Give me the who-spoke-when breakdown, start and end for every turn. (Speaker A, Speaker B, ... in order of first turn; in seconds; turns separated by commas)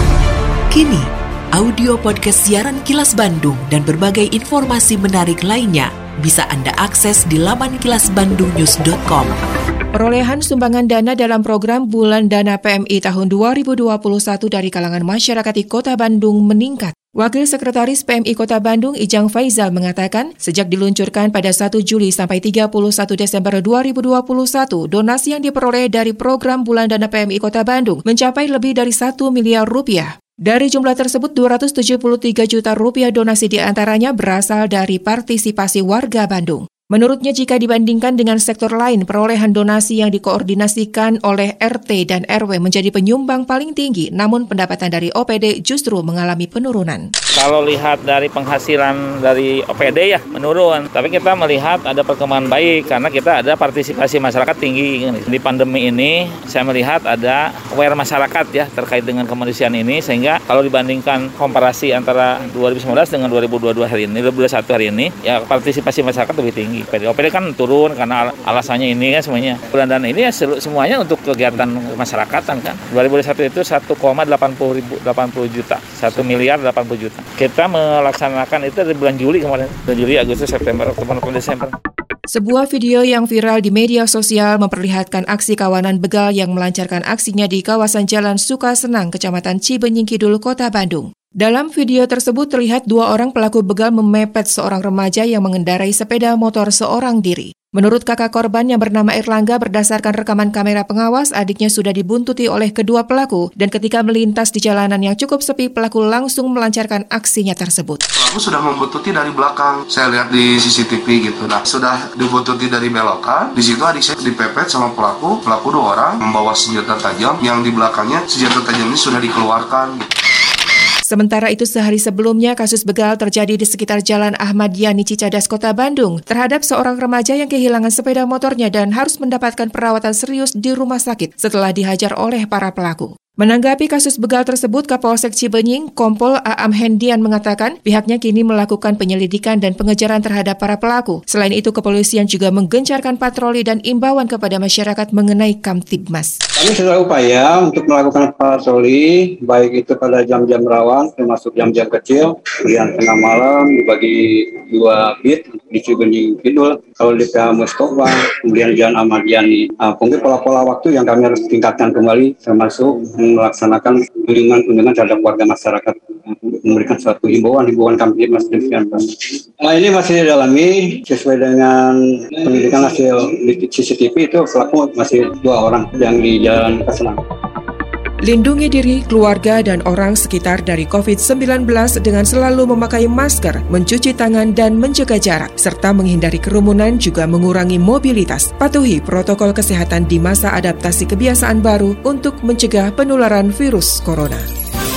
Speaker A: 0.7-9.4, Speaker B: 9.9-47.1, Speaker C: 47.4-81.7, Speaker B: 82.3-108.0, Speaker D: 108.2-120.1, Speaker B: 121.1-146.4, Speaker E: 146.6-177.2, Speaker B: 178.2-194.4